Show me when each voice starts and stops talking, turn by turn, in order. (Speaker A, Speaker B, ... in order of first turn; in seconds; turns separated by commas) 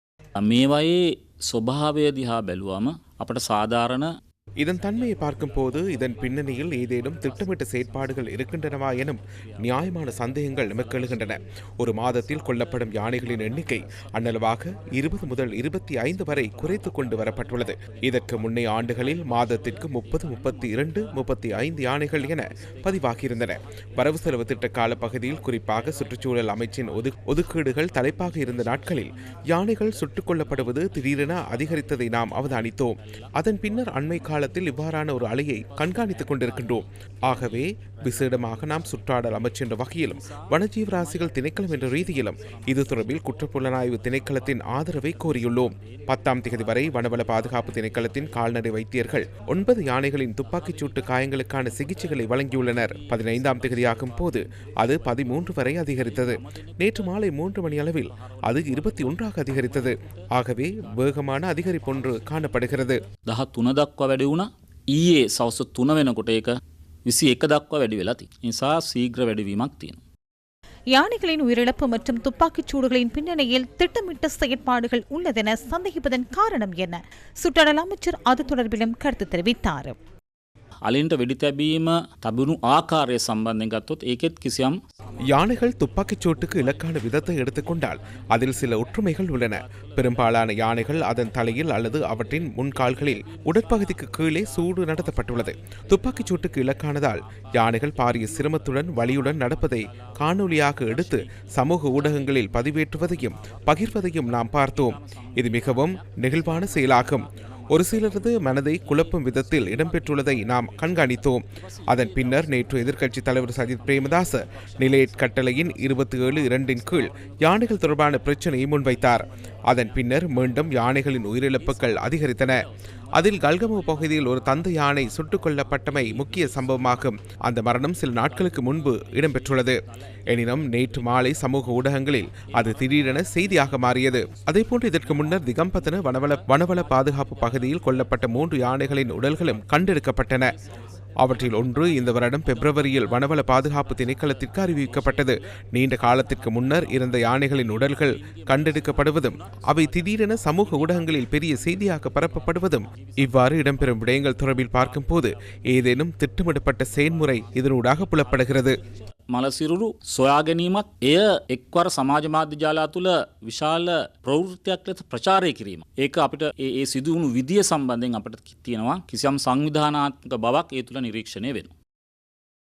Speaker A: 0.4-4.1, Speaker B: 4.6-63.0, Speaker A: 63.3-70.0, Speaker C: 70.9-80.0, Speaker A: 80.8-84.8, Speaker B: 85.3-122.6, Speaker B: 123.2-129.8, Speaker B: 130.3-140.5, Speaker B: 141.2-158.7, Speaker A: 159.3-171.7